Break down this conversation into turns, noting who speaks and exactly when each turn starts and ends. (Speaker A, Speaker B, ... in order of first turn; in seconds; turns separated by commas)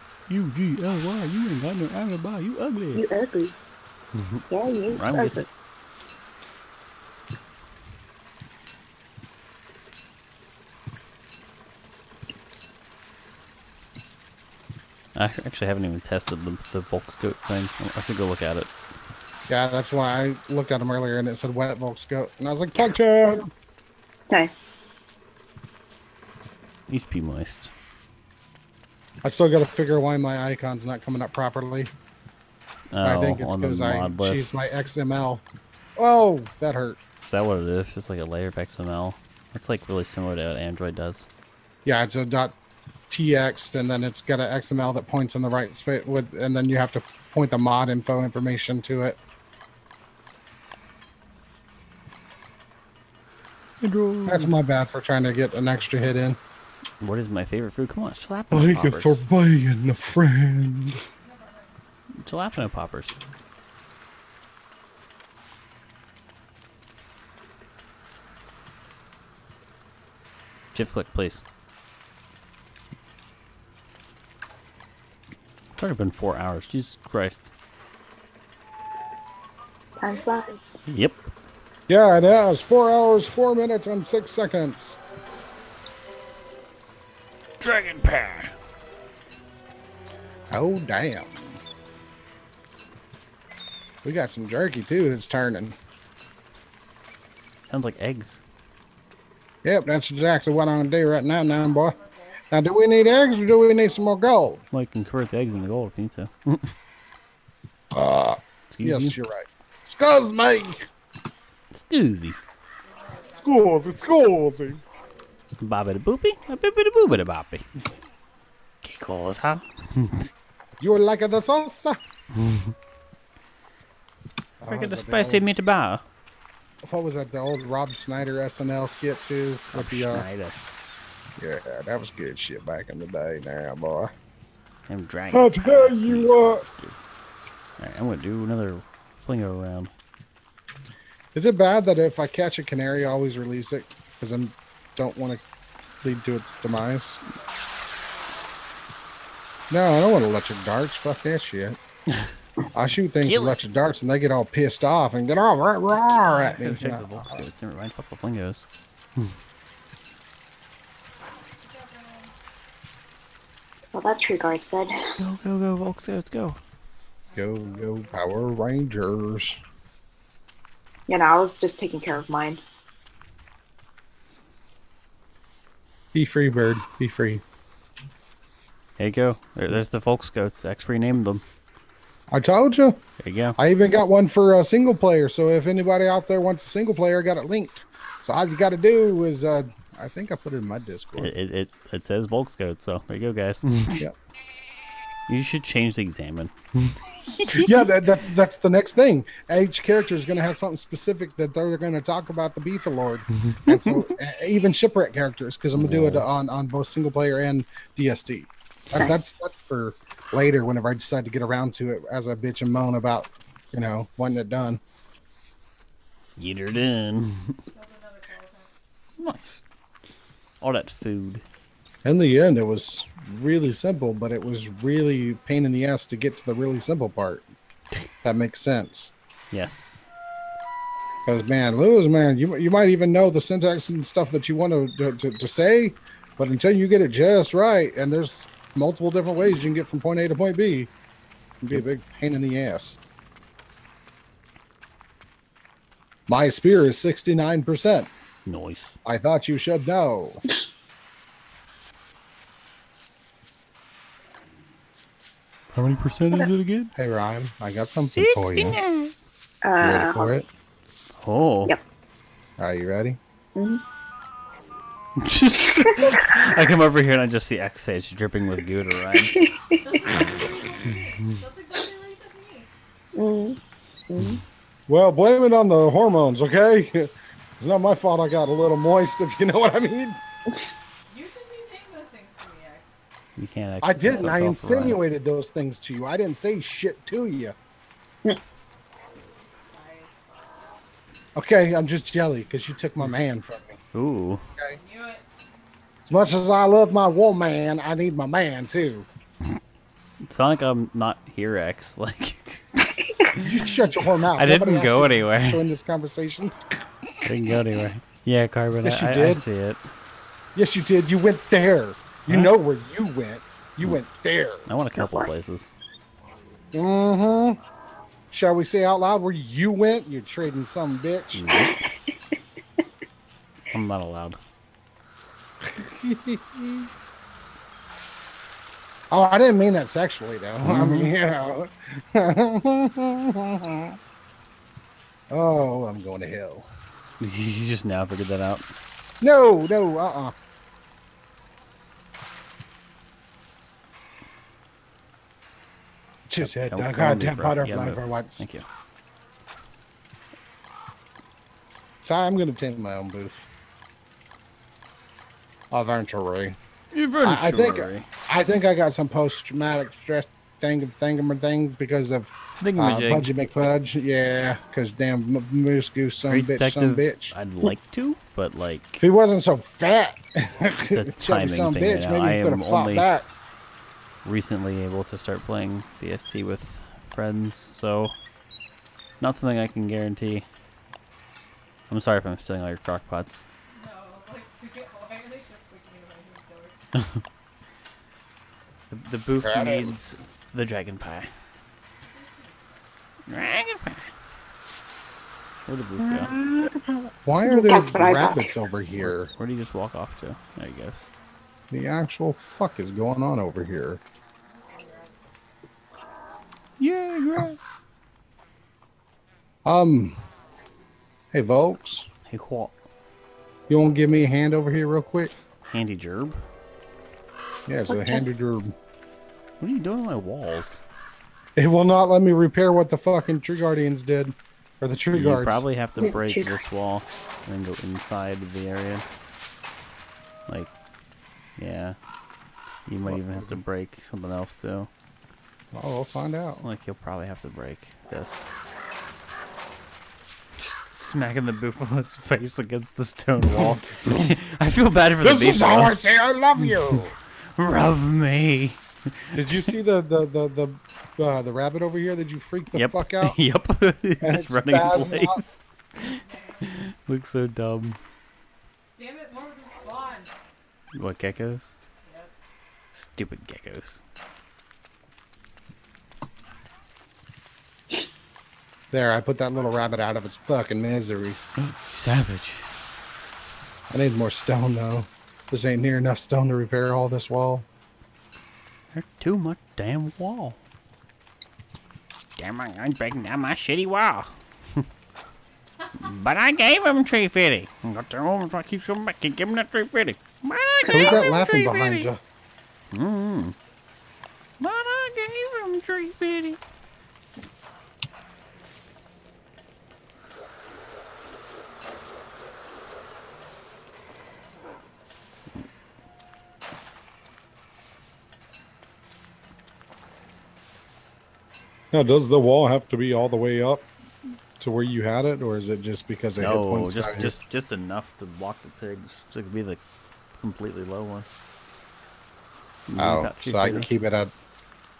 Speaker A: 0.3-3.0, Speaker B: 2.9-3.5, Speaker A: 4.1-5.5, Speaker B: 4.5-5.4, Speaker A: 15.1-18.7, Speaker C: 19.5-23.5, Speaker B: 24.3-24.7, Speaker A: 26.9-27.7, Speaker C: 29.2-31.9, Speaker A: 32.9-34.6, Speaker C: 33.0-35.4, Speaker C: 36.0-37.0, Speaker A: 37.2-41.3, Speaker C: 41.8-42.5, Speaker C: 43.1-49.2, Speaker A: 53.8-54.5, Speaker C: 54.2-56.4, Speaker A: 57.0-59.2, Speaker C: 58.5-61.0, Speaker D: 61.2-61.8, Speaker A: 62.2-63.2, Speaker A: 70.7-71.4, Speaker A: 75.8-77.5, Speaker B: 80.0-80.7, Speaker D: 80.0-80.4, Speaker A: 80.9-81.3, Speaker C: 81.9-85.0, Speaker A: 87.6-88.5, Speaker C: 90.5-91.6, Speaker C: 94.0-95.8, Speaker A: 97.7-98.4, Speaker C: 99.6-102.0, Speaker D: 101.9-102.5, Speaker C: 102.5-104.6, Speaker A: 104.7-106.7, Speaker C: 107.9-110.9, Speaker A: 108.7-109.2, Speaker A: 111.7-112.4, Speaker D: 112.8-114.2, Speaker C: 113.3-114.8, Speaker A: 115.6-117.7, Speaker A: 118.8-120.3, Speaker C: 120.8-122.0, Speaker A: 122.3-122.7, Speaker C: 124.6-125.5, Speaker A: 124.7-126.0, Speaker C: 126.8-130.2, Speaker A: 129.7-130.6, Speaker C: 131.4-134.1, Speaker A: 134.9-137.0, Speaker C: 135.3-136.6, Speaker A: 137.8-139.9, Speaker C: 141.3-145.4, Speaker C: 146.0-147.2, Speaker D: 147.3-148.6, Speaker C: 149.7-151.8, Speaker C: 152.7-157.4, Speaker A: 153.2-153.6, Speaker A: 156.2-159.3, Speaker D: 161.6-162.3, Speaker B: 163.9-165.1, Speaker A: 165.2-166.6, Speaker D: 167.2-168.4, Speaker C: 167.3-169.6, Speaker B: 171.1-172.6, Speaker C: 176.1-177.4, Speaker A: 179.0-181.4, Speaker C: 182.3-183.0, Speaker A: 183.2-183.6, Speaker C: 183.6-191.3, Speaker A: 191.2-194.1, Speaker A: 195.3-197.7, Speaker C: 197.5-214.8, Speaker A: 203.4-204.1, Speaker A: 205.7-206.2, Speaker B: 208.9-209.2, Speaker A: 216.4-217.6, Speaker D: 217.7-218.7, Speaker A: 219.2-219.6, Speaker A: 220.6-221.4, Speaker C: 222.0-227.5, Speaker C: 228.2-229.1, Speaker A: 229.5-230.0, Speaker C: 231.2-240.9, Speaker C: 241.6-243.0, Speaker C: 246.3-248.1, Speaker A: 248.4-248.9, Speaker C: 249.0-250.4, Speaker A: 255.7-256.9, Speaker C: 256.9-258.8, Speaker A: 258.1-259.1, Speaker B: 259.6-260.3, Speaker C: 259.8-260.4, Speaker A: 261.2-261.7, Speaker C: 262.6-263.2, Speaker B: 263.5-263.8, Speaker A: 265.2-269.3, Speaker B: 265.9-266.3, Speaker B: 269.3-269.8, Speaker D: 269.8-272.7, Speaker B: 273.1-274.4, Speaker C: 274.9-280.2, Speaker B: 280.5-280.8, Speaker D: 281.1-282.9, Speaker A: 283.4-285.0, Speaker C: 283.8-287.5, Speaker D: 289.6-290.6, Speaker C: 291.3-293.8, Speaker A: 293.9-294.4, Speaker D: 294.7-295.2, Speaker C: 296.1-299.1, Speaker A: 300.2-303.6, Speaker C: 303.4-306.6, Speaker A: 304.3-305.6, Speaker A: 307.2-309.8, Speaker C: 308.8-309.4, Speaker C: 310.5-314.6, Speaker A: 312.3-312.5, Speaker A: 314.7-315.7, Speaker B: 314.9-315.3, Speaker C: 316.7-317.6, Speaker C: 318.3-321.5, Speaker A: 321.3-321.7, Speaker A: 323.7-324.4, Speaker C: 325.6-326.9, Speaker C: 329.1-334.0, Speaker A: 330.6-331.1, Speaker C: 335.3-336.7, Speaker A: 337.2-338.7, Speaker C: 339.2-340.3, Speaker C: 346.3-348.4, Speaker A: 346.4-348.6, Speaker C: 352.0-353.5, Speaker C: 355.7-356.6, Speaker A: 356.9-358.1, Speaker C: 357.2-367.3, Speaker A: 362.6-363.3, Speaker A: 366.3-369.0, Speaker C: 369.0-373.3, Speaker A: 370.9-373.1, Speaker A: 374.2-378.1, Speaker A: 379.2-380.5, Speaker A: 381.9-383.4, Speaker D: 383.7-386.8, Speaker A: 388.9-391.3, Speaker C: 389.4-389.9, Speaker D: 392.0-392.8, Speaker A: 393.3-394.1, Speaker A: 395.7-396.3, Speaker C: 396.0-399.3, Speaker B: 397.4-398.5, Speaker A: 398.9-401.1, Speaker C: 401.7-404.0, Speaker D: 404.4-405.3, Speaker A: 406.8-407.8, Speaker C: 409.6-410.2, Speaker C: 411.3-412.1, Speaker A: 412.3-412.7, Speaker C: 413.7-415.3, Speaker A: 415.7-416.4, Speaker C: 417.7-418.7, Speaker B: 417.9-418.2, Speaker A: 419.6-420.8, Speaker C: 421.6-425.6, Speaker A: 425.1-429.1, Speaker B: 426.0-426.6, Speaker A: 431.6-432.0, Speaker A: 432.9-434.9, Speaker C: 433.0-433.6, Speaker C: 435.7-436.6, Speaker A: 436.6-438.5, Speaker A: 440.6-446.0, Speaker C: 443.6-444.3, Speaker C: 445.2-447.1, Speaker A: 446.6-447.0, Speaker A: 447.5-449.7, Speaker C: 449.3-453.4, Speaker A: 452.7-458.0, Speaker C: 454.2-455.4, Speaker D: 456.1-456.7, Speaker D: 458.9-460.3, Speaker A: 460.9-461.7, Speaker D: 462.0-462.3, Speaker A: 462.9-464.0, Speaker C: 468.9-471.4, Speaker A: 471.6-472.7, Speaker C: 473.9-477.6, Speaker A: 478.9-480.6, Speaker A: 482.4-484.9, Speaker A: 486.0-492.1, Speaker B: 490.8-491.2, Speaker C: 490.9-492.2, Speaker A: 492.9-493.5, Speaker A: 494.6-496.6, Speaker C: 511.9-513.9, Speaker C: 514.6-517.3, Speaker A: 516.4-519.8, Speaker A: 520.3-521.3, Speaker A: 522.9-523.9, Speaker C: 523.0-524.3